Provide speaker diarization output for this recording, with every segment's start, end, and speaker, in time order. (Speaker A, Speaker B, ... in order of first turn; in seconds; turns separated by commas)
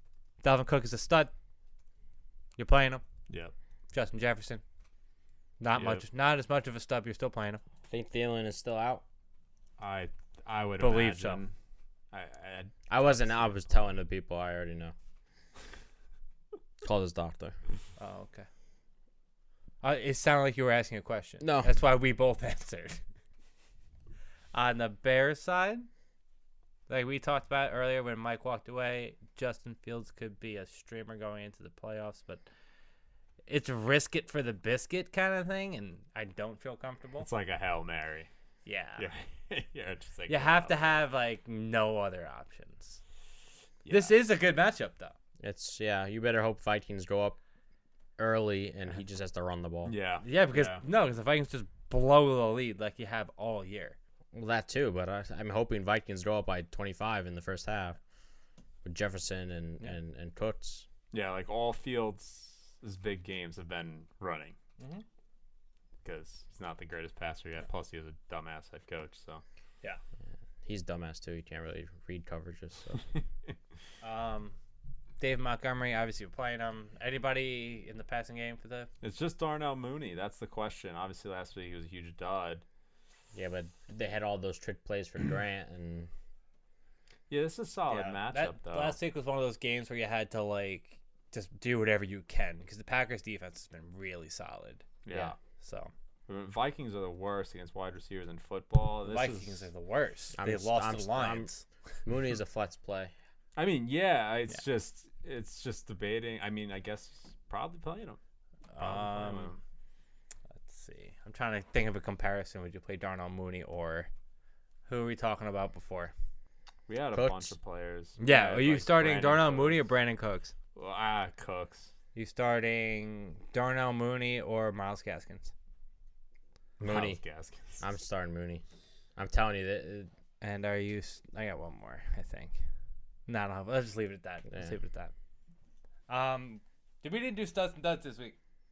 Speaker A: 0.4-1.3, Speaker A: 2.6-3.0, Speaker B: 3.3-3.5, Speaker A: 3.9-4.6, Speaker A: 5.6-7.6, Speaker B: 5.8-6.0, Speaker C: 7.9-9.0, Speaker B: 9.8-11.5, Speaker A: 10.8-11.4, Speaker B: 12.1-13.8, Speaker C: 12.9-14.9, Speaker C: 16.8-17.6, Speaker A: 18.0-18.5, Speaker A: 19.8-23.0, Speaker C: 21.4-21.7, Speaker A: 24.5-25.9, Speaker A: 26.9-32.5, Speaker A: 33.5-37.3, Speaker B: 37.2-38.3, Speaker A: 38.7-39.1, Speaker B: 39.0-41.0, Speaker A: 40.3-43.0, Speaker B: 43.9-44.2, Speaker A: 43.9-45.1, Speaker C: 45.4-47.4, Speaker C: 48.2-49.9, Speaker B: 49.9-50.8, Speaker A: 50.2-54.0, Speaker C: 54.3-58.0, Speaker C: 58.8-60.9, Speaker B: 61.1-64.6, Speaker A: 64.8-65.0, Speaker B: 66.0-69.4, Speaker C: 70.7-73.0, Speaker A: 74.0-74.6, Speaker A: 75.2-78.9, Speaker B: 79.0-82.7, Speaker C: 83.3-86.1, Speaker B: 87.3-89.0, Speaker A: 87.9-95.9, Speaker B: 95.0-95.3, Speaker B: 96.3-99.7, Speaker A: 99.0-101.6, Speaker C: 100.4-101.5, Speaker C: 102.0-103.1, Speaker B: 103.6-108.2, Speaker A: 108.7-109.5, Speaker B: 108.8-109.6, Speaker A: 110.6-114.1, Speaker A: 114.9-116.1, Speaker B: 116.9-119.8, Speaker C: 117.1-117.5, Speaker A: 118.2-120.5, Speaker B: 120.8-121.9, Speaker A: 122.2-125.5, Speaker B: 126.8-127.8, Speaker C: 126.8-127.2, Speaker C: 127.8-128.6, Speaker C: 129.2-130.1, Speaker A: 130.4-132.6, Speaker A: 133.3-135.1, Speaker A: 136.1-138.3